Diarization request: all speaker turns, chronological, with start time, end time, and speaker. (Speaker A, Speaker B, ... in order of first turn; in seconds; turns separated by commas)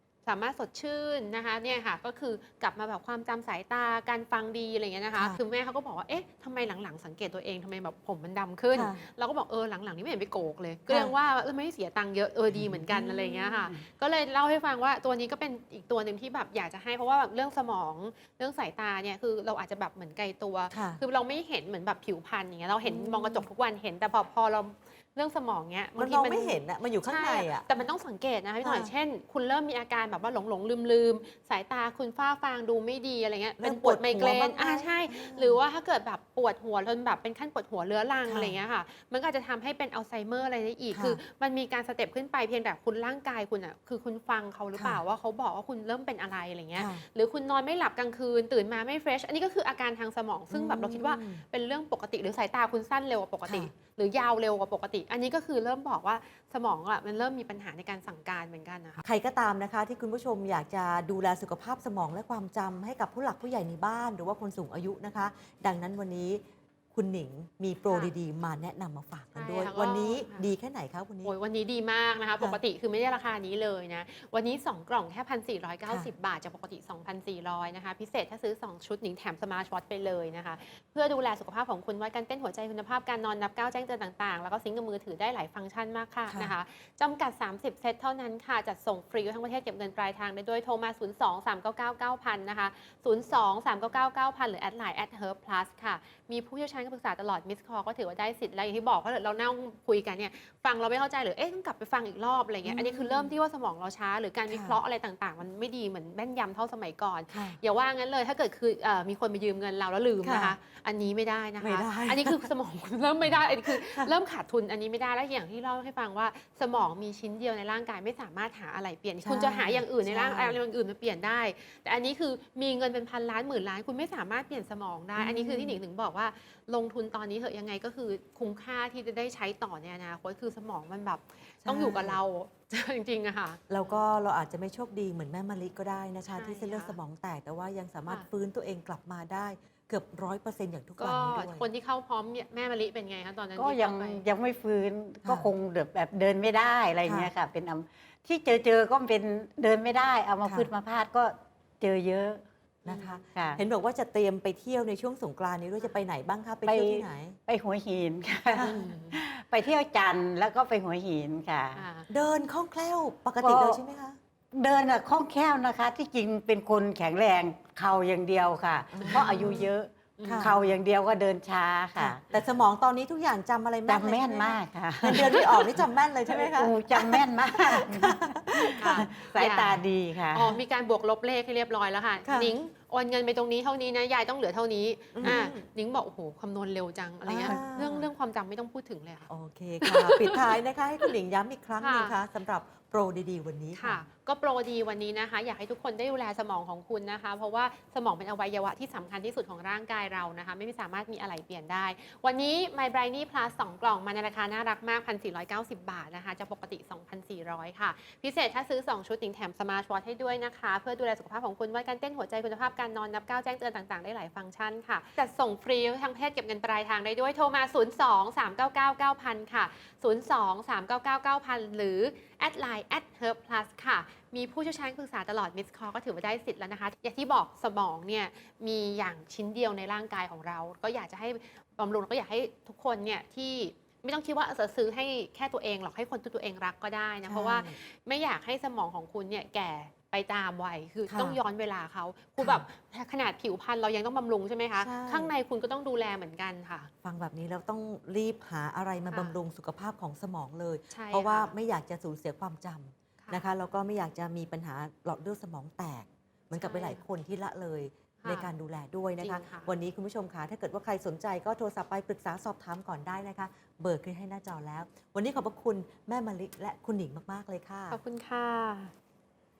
Speaker A: 0.2-59.0, Speaker B: 5.2-5.4, Speaker B: 8.7-9.0, Speaker B: 10.9-11.2, Speaker B: 12.5-13.8, Speaker B: 20.7-21.0, Speaker B: 22.8-23.5, Speaker B: 26.0-27.8, Speaker B: 28.6-28.9, Speaker B: 33.6-35.6, Speaker B: 38.2-38.6, Speaker B: 40.9-41.2, Speaker B: 44.7-45.0, Speaker B: 46.8-47.0, Speaker B: 50.5-51.4, Speaker B: 53.4-53.7, Speaker B: 59.0-71.3, Speaker A: 69.4-70.4, Speaker A: 71.2-134.0, Speaker B: 75.9-76.1, Speaker B: 86.3-86.5, Speaker B: 102.7-103.3, Speaker B: 104.5-104.8, Speaker B: 107.3-107.6, Speaker B: 110.2-110.6, Speaker B: 111.6-112.5, Speaker B: 113.5-114.1, Speaker B: 119.2-120.6, Speaker B: 125.2-125.8, Speaker B: 131.6-132.2, Speaker B: 133.7-141.7, Speaker A: 136.4-137.0, Speaker A: 141.0-144.2, Speaker C: 143.6-152.4, Speaker B: 145.2-145.5, Speaker B: 147.0-147.3, Speaker B: 150.4-150.7, Speaker B: 152.8-157.4, Speaker A: 152.9-153.1, Speaker C: 153.3-153.6, Speaker C: 156.7-161.9, Speaker B: 158.6-158.9, Speaker A: 161.8-162.1, Speaker B: 162.1-164.2, Speaker C: 163.4-163.8, Speaker C: 164.5-172.2, Speaker B: 168.9-169.7, Speaker A: 169.1-169.6, Speaker A: 170.2-170.6, Speaker B: 170.2-170.6, Speaker B: 171.9-179.2, Speaker C: 173.9-180.5, Speaker A: 178.8-179.8, Speaker A: 180.3-189.3, Speaker B: 182.2-182.6, Speaker B: 185.2-185.6, Speaker C: 185.2-185.5, Speaker B: 187.3-188.1, Speaker B: 189.3-194.1, Speaker A: 189.8-190.4, Speaker A: 191.8-192.1, Speaker A: 193.8-246.9, Speaker B: 237.3-237.8, Speaker B: 241.1-241.4, Speaker B: 242.4-242.7, Speaker B: 244.8-245.3, Speaker B: 247.0-268.0, Speaker A: 250.9-251.5, Speaker A: 256.6-257.0, Speaker A: 258.2-258.5, Speaker A: 259.2-259.7, Speaker A: 267.9-268.9